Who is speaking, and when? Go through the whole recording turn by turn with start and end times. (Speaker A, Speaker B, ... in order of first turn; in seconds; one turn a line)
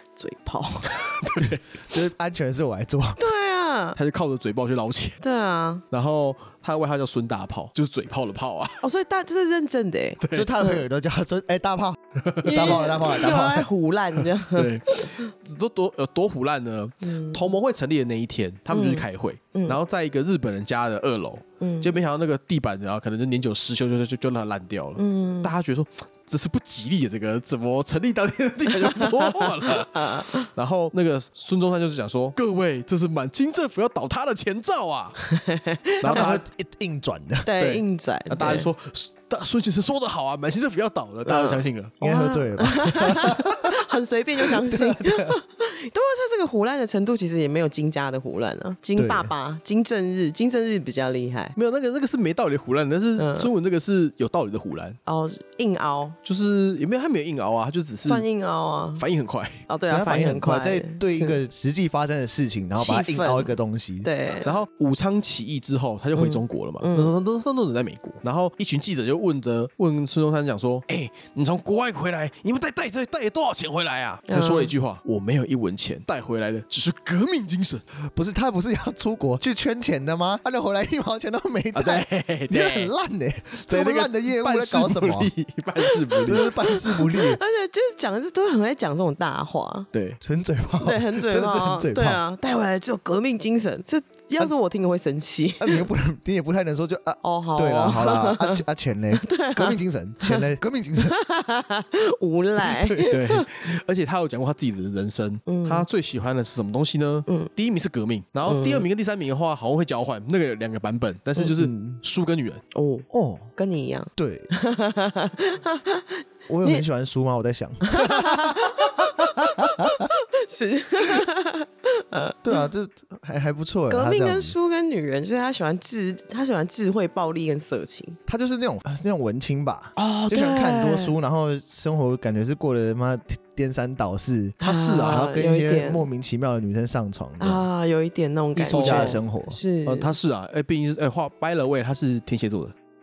Speaker A: 0.2-0.9
Speaker B: 0.8-1.8
Speaker C: 1.4-3.2
Speaker A: 3.2-4.0
Speaker B: 4.0-5.2
Speaker A: 5.2-5.8
Speaker B: 5.9-8.8
Speaker A: 8.8-10.8
Speaker B: 10.2-10.5
Speaker C: 10.3-13.7
Speaker B: 12.3-12.9
Speaker A: 12.4-15.2
Speaker B: 14.2-35.2
Speaker A: 17.0-17.5
Speaker A: 18.7-19.8
Speaker A: 21.6-21.9
Speaker A: 25.0-25.5
Speaker A: 28.8-30.5
Speaker A: 35.2-36.3
Speaker B: 36.0-36.4
Speaker C: 36.0-37.5
Speaker A: 37.4-38.7
Speaker B: 37.6-42.0
Speaker A: 41.2-51.5
Speaker C: 42.0-43.6
Speaker C: 44.6-45.4
Speaker C: 49.0-49.3
Speaker B: 51.5-55.0
Speaker A: 53.2-53.5
Speaker A: 55.0-56.1
Speaker B: 56.2-58.3
Speaker A: 58.0-59.0
Speaker B: 59.0-59.6
Speaker A: 59.7-61.4
Speaker C: 59.9-64.1
Speaker A: 62.8-64.5
Speaker B: 64.4-77.8
Speaker A: 66.1-67.2
Speaker A: 74.3-74.7
Speaker C: 78.1-85.3
Speaker B: 81.7-82.9
Speaker B: 83.7-86.5
Speaker C: 86.2-87.4
Speaker A: 86.3-89.9
Speaker B: 89.9-90.2
Speaker C: 90.2-92.2
Speaker A: 90.8-95.9
Speaker C: 95.6-101.2
Speaker A: 97.2-98.6
Speaker A: 99.1-103.4
Speaker C: 102.6-103.1
Speaker B: 103.1-112.6
Speaker A: 105.5-105.9
Speaker A: 108.5-108.8
Speaker C: 111.3-112.0
Speaker A: 112.7-116.1
Speaker C: 113.1-113.5
Speaker C: 114.2-114.5
Speaker C: 116.5-118.9
Speaker A: 117.8-122.7
Speaker C: 122.4-124.5
Speaker A: 123.9-128.2
Speaker C: 128.3-137.7
Speaker A: 129.9-131.2
Speaker A: 134.6-136.1
Speaker B: 134.6-135.3
Speaker A: 137.4-140.1
Speaker C: 138.5-139.6
Speaker B: 138.7-139.2
Speaker B: 139.8-142.7